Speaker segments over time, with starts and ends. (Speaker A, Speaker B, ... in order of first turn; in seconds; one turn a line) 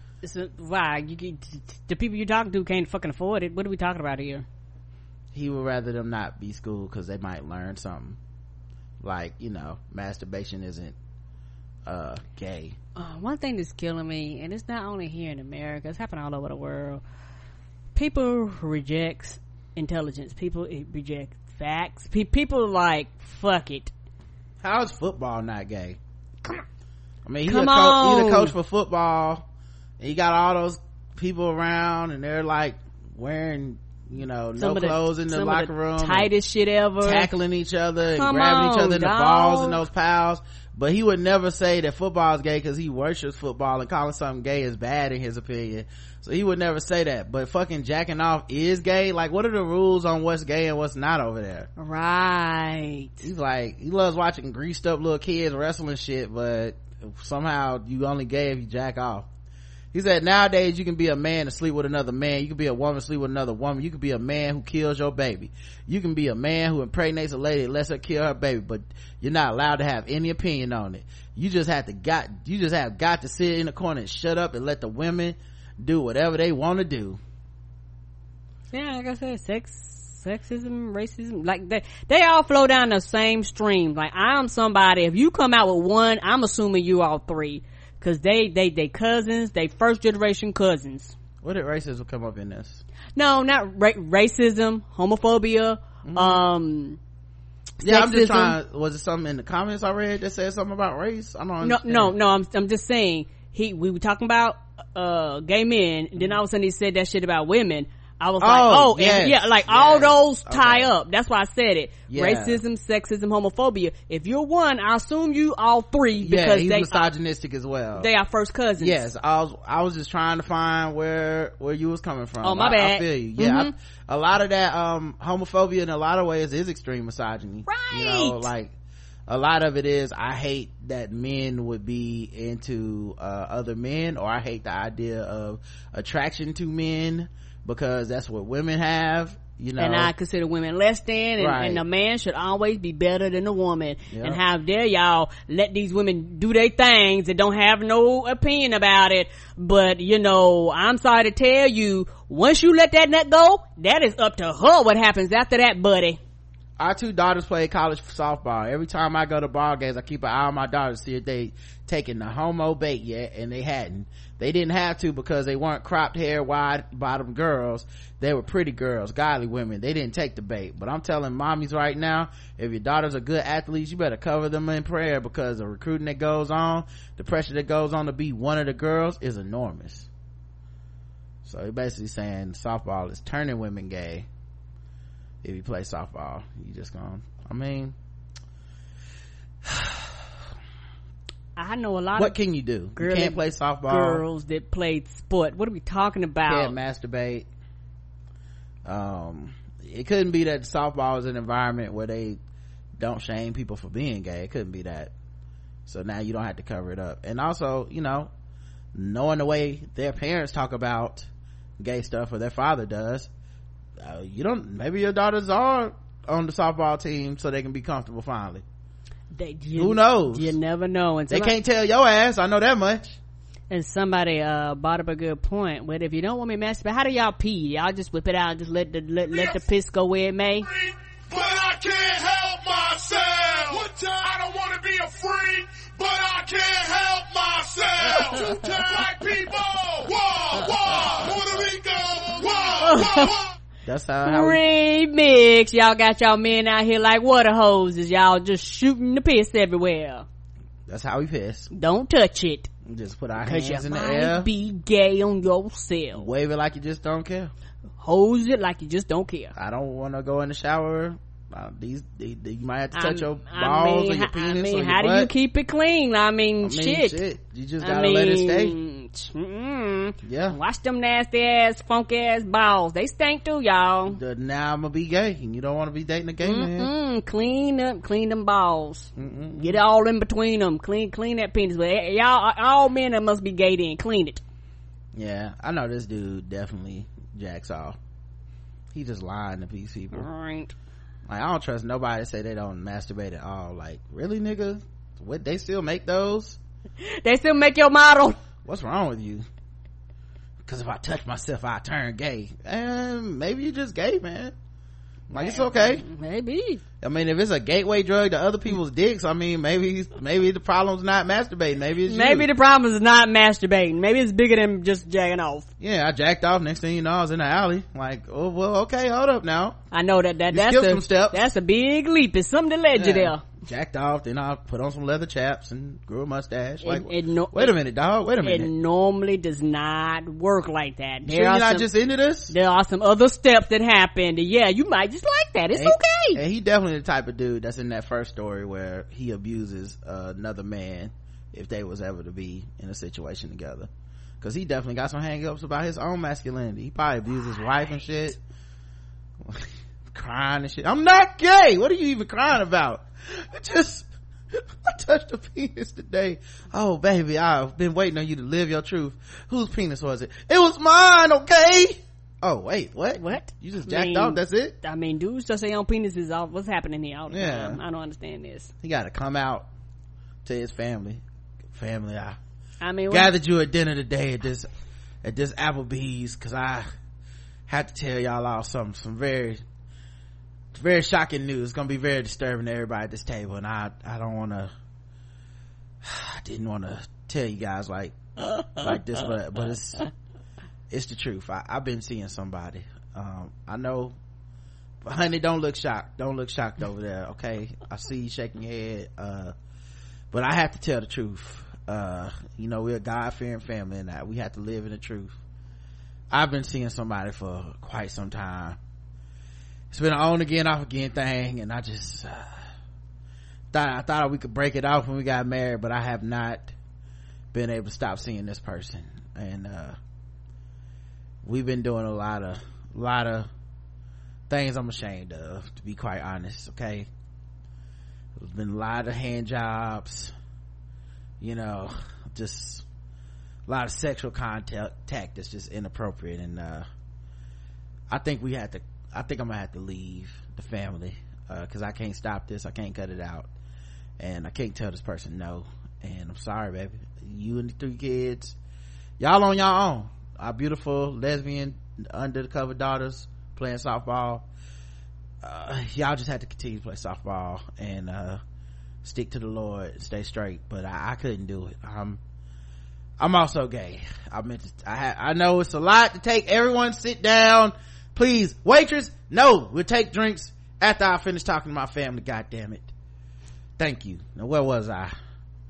Speaker A: 0.2-4.5
Speaker B: 5.3-8.2
Speaker B: 9.0-11.0
Speaker B: 11.8-12.8
Speaker A: 13.0-17.0
Speaker A: 17.9-23.9
Speaker B: 24.6-26.0
Speaker B: 27.2-29.5
Speaker A: 27.5-28.5
Speaker B: 30.0-36.3
Speaker A: 34.6-37.3
Speaker B: 37.0-51.7
Speaker A: 38.1-39.8
Speaker A: 51.8-53.3
Speaker B: 53.2-59.3
Speaker B: 59.9-77.2
Speaker A: 78.7-91.1
Speaker B: 91.4-92.8
Speaker A: 93.2-97.0
Speaker B: 96.0-96.4
Speaker A: 97.8-98.6
Speaker B: 97.8-102.1
Speaker A: 101.6-117.1
Speaker B: 108.4-110.9
Speaker B: 112.1-112.6
Speaker B: 116.2-118.1
Speaker A: 118.0-119.1
Speaker B: 118.8-128.7
Speaker A: 122.4-123.7
Speaker A: 127.7-128.5
Speaker B: 129.3-140.1
Speaker A: 139.8-156.2
Speaker B: 141.4-141.8
Speaker B: 144.1-144.4
Speaker B: 156.8-180.1
Speaker B: 181.4-184.3
Speaker B: 185.4-187.9
Speaker B: 189.7-190.1
Speaker A: 191.6-192.4
Speaker B: 192.2-194.2
Speaker A: 193.0-196.7
Speaker B: 196.5-197.5
Speaker B: 198.9-202.4
Speaker B: 203.0-205.1
Speaker B: 205.9-208.3
Speaker B: 208.9-211.3
Speaker B: 211.8-213.3
Speaker B: 214.0-218.6
Speaker A: 219.3-221.6
Speaker B: 219.8-220.6
Speaker B: 221.3-223.2
Speaker A: 223.7-230.7
Speaker C: 229.3-229.6
Speaker C: 230.6-243.5
Speaker A: 242.8-243.3
Speaker B: 243.8-244.6
Speaker A: 244.2-250.3
Speaker B: 250.9-251.7
Speaker A: 251.7-252.7
Speaker B: 252.8-254.5
Speaker A: 253.4-256.3
Speaker B: 256.1-257.5
Speaker A: 258.0-259.5
Speaker B: 259.6-265.3
Speaker A: 262.9-267.2
Speaker B: 266.6-268.8
Speaker A: 267.8-274.2
Speaker B: 270.2-270.6
Speaker B: 274.1-276.9
Speaker A: 276.4-284.4
Speaker B: 279.2-279.8
Speaker B: 285.1-288.0
Speaker B: 288.9-290.3
Speaker A: 290.1-290.7
Speaker B: 291.3-296.6
Speaker A: 297.0-298.4
Speaker B: 298.6-299.5
Speaker B: 300.6-304.6
Speaker B: 305.3-306.0
Speaker A: 305.3-306.8
Speaker B: 307.0-312.5
Speaker A: 312.1-315.7
Speaker B: 315.8-319.8
Speaker A: 319.9-323.4
Speaker B: 320.5-321.5
Speaker B: 322.9-328.7
Speaker A: 326.8-327.8
Speaker A: 328.4-331.9
Speaker B: 331.2-332.5
Speaker A: 332.5-336.4
Speaker B: 335.7-343.9
Speaker B: 344.4-348.4
Speaker B: 349.4-364.8
Speaker A: 363.2-368.7
Speaker B: 367.3-367.8
Speaker B: 368.8-369.7
Speaker B: 370.4-371.2
Speaker B: 371.7-372.4
Speaker A: 372.8-373.3
Speaker B: 373.1-374.7
Speaker B: 375.2-376.9
Speaker B: 377.7-379.6
Speaker B: 380.7-384.7
Speaker B: 386.0-390.1
Speaker B: 390.9-394.1
Speaker B: 395.0-399.5
Speaker B: 400.3-405.4
Speaker B: 406.3-408.8
Speaker B: 409.9-412.6
Speaker B: 413.7-416.7
Speaker B: 417.5-420.0
Speaker B: 421.4-423.5
Speaker B: 424.5-427.1
Speaker B: 428.4-430.3
Speaker B: 431.4-432.8
Speaker B: 433.7-436.9
Speaker B: 438.1-443.5
Speaker B: 444.2-448.6
Speaker B: 449.2-454.5
Speaker B: 455.4-458.4
Speaker B: 459.0-462.2
Speaker B: 463.2-472.9
Speaker B: 473.8-475.1